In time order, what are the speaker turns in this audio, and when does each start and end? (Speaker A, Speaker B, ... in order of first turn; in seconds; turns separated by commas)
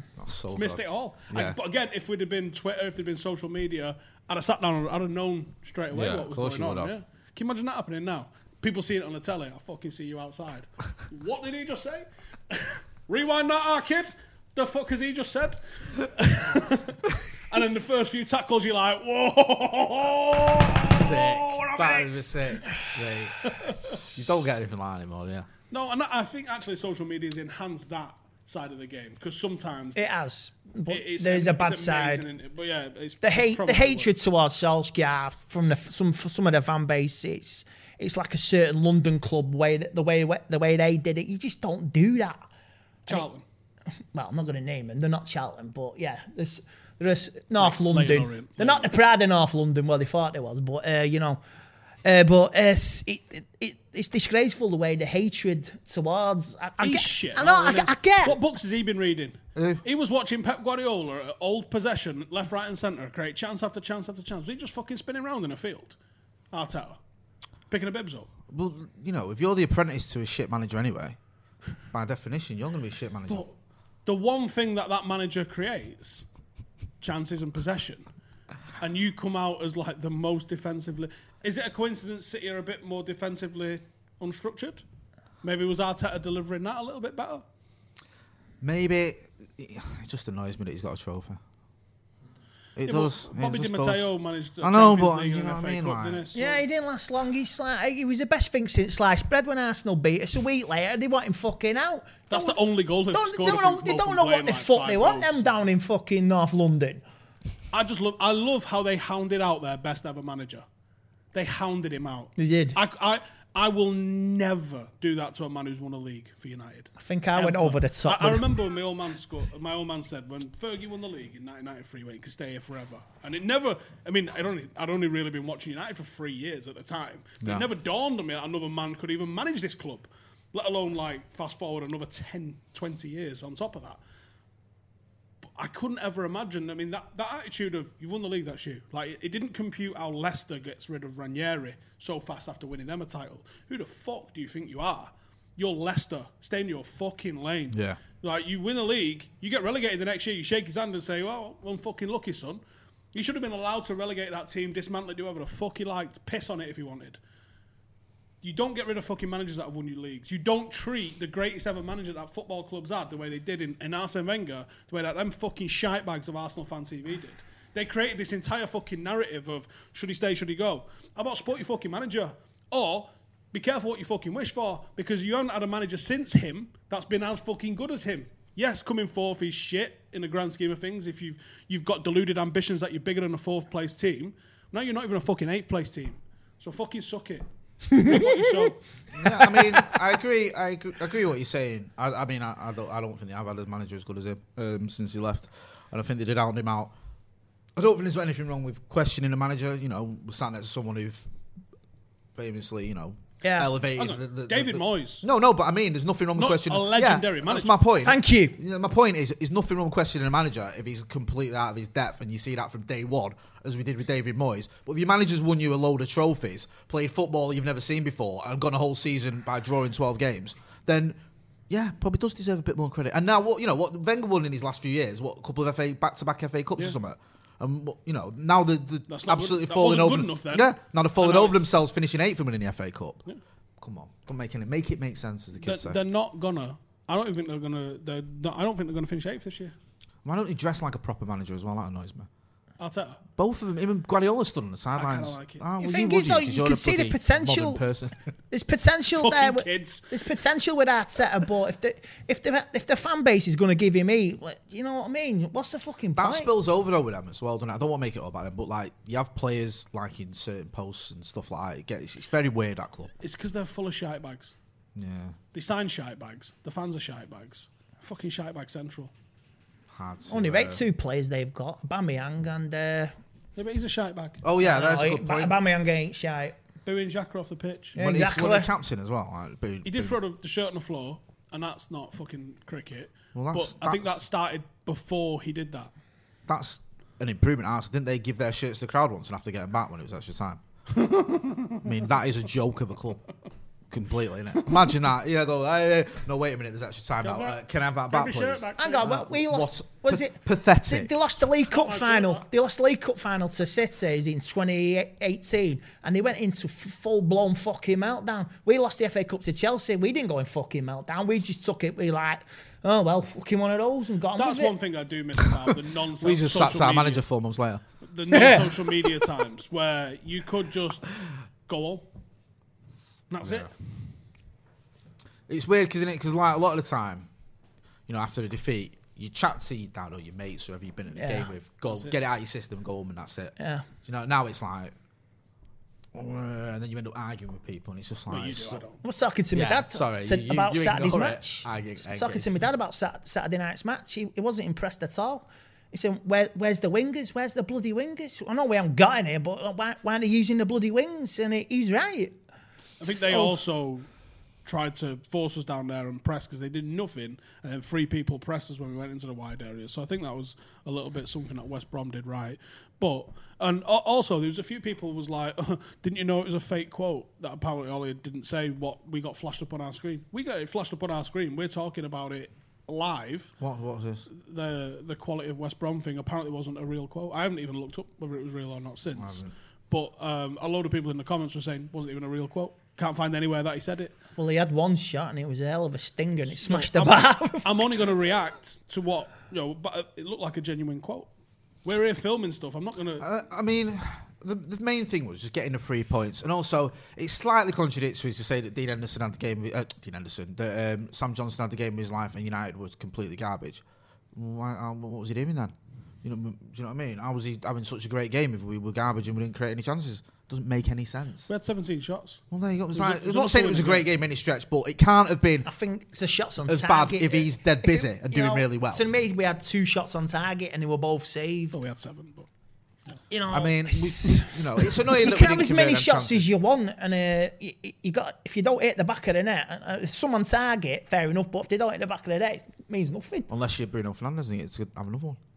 Speaker A: 0.2-1.6, Speaker B: 0.5-22.3, Speaker A: 5.9-7.0, Speaker A: 20.8-25.5, Speaker B: 23.4-24.2, Speaker B: 25.7-30.0, Speaker C: 29.9-32.2, Speaker B: 30.9-34.1, Speaker C: 33.2-42.4, Speaker B: 43.0-43.4, Speaker C: 44.1-51.4, Speaker B: 47.6-48.9, Speaker C: 52.0-58.4, Speaker B: 56.8-66.0, Speaker A: 59.5-59.8, Speaker B: 66.5-67.0, Speaker B: 67.7-68.3, Speaker A: 68.5-71.2, Speaker A: 71.9-73.5, Speaker B: 73.3-73.5, Speaker B: 74.0-76.2, Speaker B: 77.0-78.1, Speaker B: 78.8-84.8, Speaker B: 85.4-87.4, Speaker A: 88.6-91.4, Speaker A: 92.8-94.1, Speaker B: 92.8-96.6, Speaker A: 94.6-96.3, Speaker C: 96.3-107.0, Speaker B: 102.3-105.6, Speaker B: 107.7-110.6, Speaker B: 111.3-134.0, Speaker C: 112.4-112.8, Speaker C: 117.0-118.5, Speaker A: 127.4-127.7, Speaker B: 135.5-152.6, Speaker A: 147.7-148.0, Speaker B: 153.1-157.2, Speaker B: 158.4-188.8, Speaker C: 187.9-188.4, Speaker A: 189.1-196.9, Speaker A: 197.8-201.2, Speaker A: 202.3-233.2, Speaker C: 203.4-203.7, Speaker B: 203.9-205.2, Speaker B: 206.3-207.8, Speaker C: 208.0-208.6, Speaker B: 229.1-231.6, Speaker A: 233.8-236.0, Speaker B: 235.6-239.7, Speaker A: 240.2-242.3, Speaker B: 242.8-243.2, Speaker A: 243.4-248.1, Speaker B: 244.9-245.6, Speaker C: 245.8-247.8, Speaker C: 248.5-256.5, Speaker B: 249.2-250.0, Speaker A: 256.1-263.1, Speaker B: 263.2-264.5, Speaker A: 264.9-265.4, Speaker B: 265.5-269.1, Speaker A: 269.9-270.8, Speaker C: 270.3-273.1, Speaker B: 273.6-274.5, Speaker A: 274.4-275.6, Speaker C: 274.6-276.6, Speaker B: 276.8-277.9, Speaker A: 277.9-280.2, Speaker C: 277.9-278.7, Speaker B: 279.8-285.9, Speaker A: 283.3-284.2, Speaker A: 286.5-290.6, Speaker B: 290.9-291.9, Speaker A: 291.8-293.2, Speaker A: 293.9-301.1, Speaker B: 297.2-297.6, Speaker B: 298.1-299.1, Speaker C: 298.8-314.8, Speaker B: 301.6-302.4, Speaker B: 314.4-317.2, Speaker A: 316.2-317.8, Speaker B: 318.0-321.1, Speaker C: 318.3-318.6, Speaker B: 321.7-322.0, Speaker B: 323.3-323.7, Speaker A: 323.4-323.7, Speaker A: 325.5-327.3, Speaker A: 328.1-334.9, Speaker C: 331.1-331.5, Speaker C: 333.6-333.9, Speaker A: 336.1-338.8, Speaker B: 338.3-339.0, Speaker C: 339.0-352.3, Speaker A: 339.5-342.6, Speaker B: 353.0-354.1, Speaker C: 353.1-353.5, Speaker B: 354.6-373.5, Speaker A: 373.6-374.3, Speaker B: 374.4-384.1, Speaker A: 379.1-379.5, Speaker C: 384.4-388.1, Speaker B: 386.6-391.3, Speaker B: 391.8-393.2, Speaker A: 393.2-403.8, Speaker A: 404.3-411.5, Speaker B: 411.5-412.4, Speaker A: 412.5-415.7, Speaker B: 412.9-414.1, Speaker C: 415.6-421.8, Speaker A: 416.6-419.1, Speaker B: 421.7-422.5, Speaker C: 423.3-433.5, Speaker A: 423.5-426.5, Speaker A: 433.5-435.4